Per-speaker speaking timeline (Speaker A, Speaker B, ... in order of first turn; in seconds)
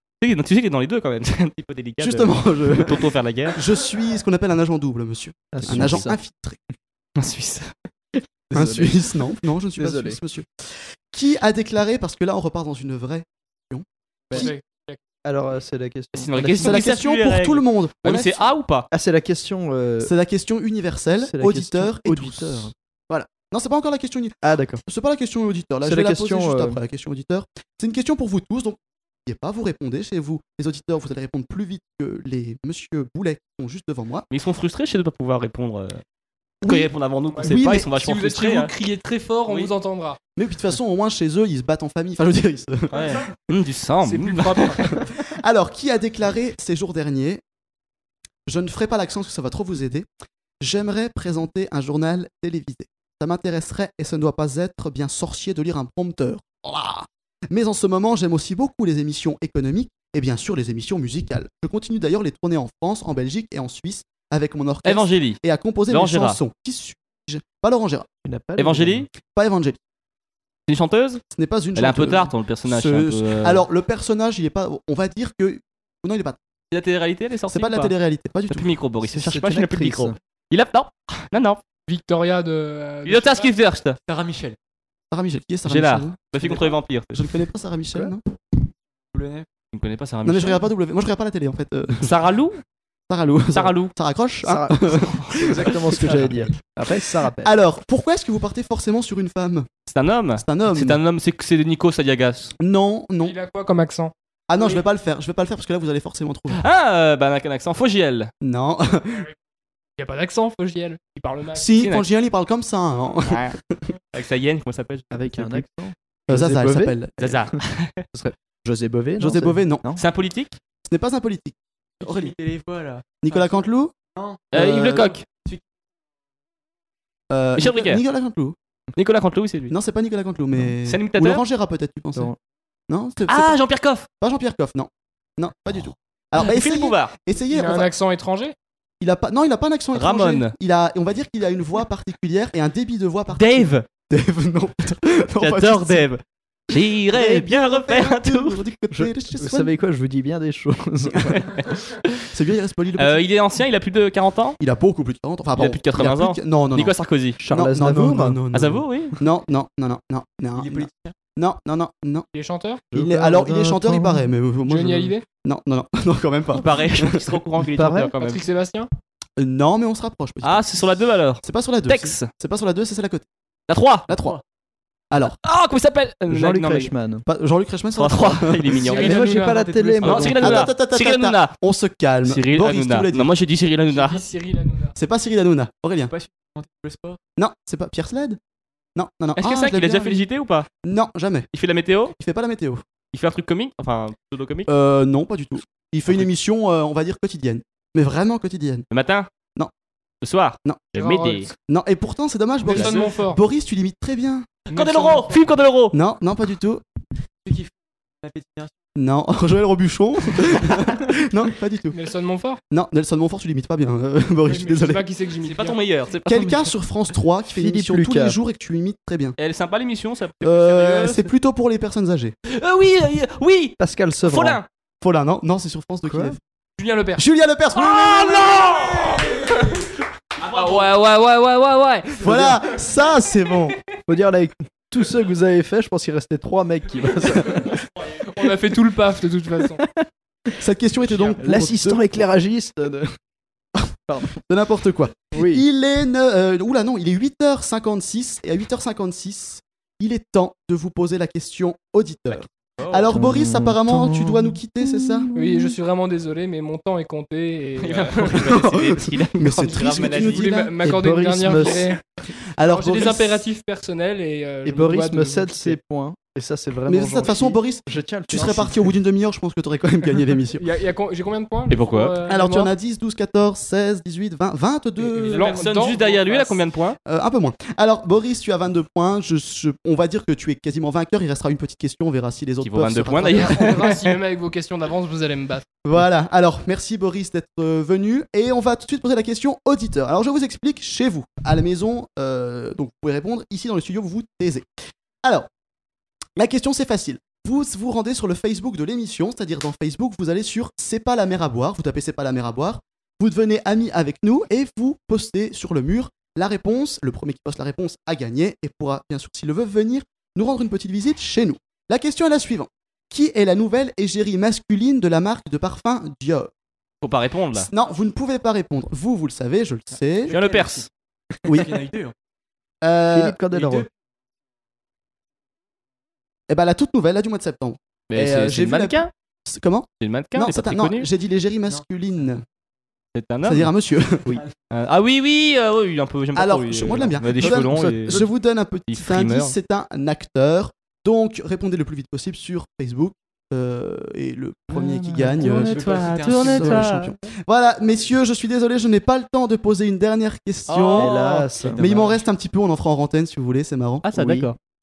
Speaker A: 0.2-3.6, 5.6-6.1, 7.2-7.7, 16.1-18.9, 34.3-36.0, 36.6-38.7, 39.5-39.7, 42.9-44.9, 64.8-66.4, 68.6-69.1, 70.7-71.2, 71.7-73.6, 76.7-77.9, 78.5-81.6, 83.0-84.0, 85.7-87.2, 89.7-90.6, 92.0-92.6, 93.5-93.9, 99.9-102.5, 106.5-108.3, 111.7-112.0, 113.2-113.6, 114.1-115.7, 117.2-118.0, 119.9-120.6, 124.5-125.2, 127.5-128.0, 129.0-129.7, 130.8-131.4, 133.3-134.1, 136.3-137.1, 139.9-140.5, 143.3-143.9, 145.4-148.6, 153.0-154.6, 155.6-157.4, 158.5-159.1, 166.5-168.4, 170.4-172.3, 173.7-174.4, 175.2-176.9, 177.9-179.2, 180.0-181.5, 182.2-184.2, 189.4-190.7, 191.5-192.1, 193.1-194.7, 198.9-199.3, 200.2-201.5, 202.7-203.0, 204.7-205.9, 215.4-216.7, 219.4-221.3, 222.5-224.7, 227.8-229.3, 230.4-232.1, 252.3-253.2, 257.8-260.5, 271.7-272.2, 275.3-277.0, 282.6-284.0, 317.0-317.7, 320.3-320.9, 328.1-329.1, 330.0-331.1, 333.1-333.7, 334.7-338.2, 338.9-339.5, 345.4-347.1, 350.7-352.0, 354.0-354.6
Speaker B: 2.0-6.6, 8.5-14.5, 16.6-18.5, 20.0-34.2, 36.6-37.9, 40.4-43.0, 45.3-47.4, 48.5-50.1, 50.6-68.1, 69.2-69.8, 71.3-76.4, 77.5-78.7, 85.1-88.3, 90.2-92.3, 93.1-99.7, 100.4-101.0, 102.6-103.3, 104.5-106.6, 108.4-109.2, 111.5-113.8, 116.3-117.5, 119.2-119.8, 120.8-122.3, 123.2-123.9, 127.3-128.6, 129.7-132.3, 132.9-133.6, 134.2-137.9, 139.0-146.1, 147.1-149.7, 152.3-153.2, 154.6-162.3, 162.9-167.2, 169.4-170.8, 171.4-173.2, 174.1-174.4, 175.1-175.3, 177.2-178.9, 180.3-183.3, 184.9-186.1, 187.4-188.4, 188.9-190.3, 190.8-191.5, 192.1-192.8, 194.7-198.8, 201.7-204.5, 205.9-206.8, 208.9-211.9, 212.7-215.0, 216.2-219.3, 220.4-222.3, 225.0-226.4, 227.2-228.9, 232.2-233.8, 240.6-242.2, 244.4-255.3, 258.3-260.8, 262.6-263.4, 266.9-270.6, 272.2-275.6, 277.1-284.0, 285.8-294.7, 296.4-316.5, 317.5-320.3, 321.4-321.8, 322.8-323.4, 326.5-332.4, 333.4-334.3, 336.3-351.2, 351.8-354.4
Speaker C: 5.5-6.2, 8.5-9.0, 9.8-10.2, 15.2-16.9, 18.9-20.1, 21.2-22.7, 24.4-24.8, 25.8-26.8, 68.2-69.1, 79.1-80.2, 94.4-97.5, 115.1-117.0, 118.1-120.0, 124.5-125.0, 148.9-151.8, 157.4-158.4, 162.9-164.3, 167.6-168.1, 176.3-177.2, 178.9-180.7, 217.4-218.4, 223.8-224.6, 226.1-226.3, 232.2-232.6, 234.1-237.8, 239.7-240.5, 241.4-243.2, 244.1-244.4, 245.3-245.6, 253.1-255.7, 260.8-262.0, 264.6-268.9, 323.1-323.9, 337.3-338.3, 344.7-345.7, 350.9-352.1, 354.2-354.5
Speaker D: 14.3-15.0, 37.3-40.2, 42.9-43.2, 44.0-45.0, 81.9-83.5, 103.2-104.1, 110.0-111.7, 137.5-138.5, 162.3-162.9, 164.6-165.3, 168.2-168.9, 178.8-180.0, 183.9-184.9, 200.9-201.5, 202.6-203.4, 204.7-205.4, 211.9-212.6, 214.4-215.8, 226.8-227.2, 230.5-231.3, 238.2-239.8, 255.3-258.4, 259.8-262.0, 262.7-265.8, 270.6-272.7, 275.0-276.6, 283.2-285.7
Speaker E: 84.0-84.6, 89.1-89.5, 122.0-125.6, 160.5-161.2, 186.1-187.2, 207.4-208.7, 275.2-276.2, 320.2-320.9, 321.5-322.1, 323.5-323.9, 331.6-332.2, 334.3-334.5, 345.5-347.0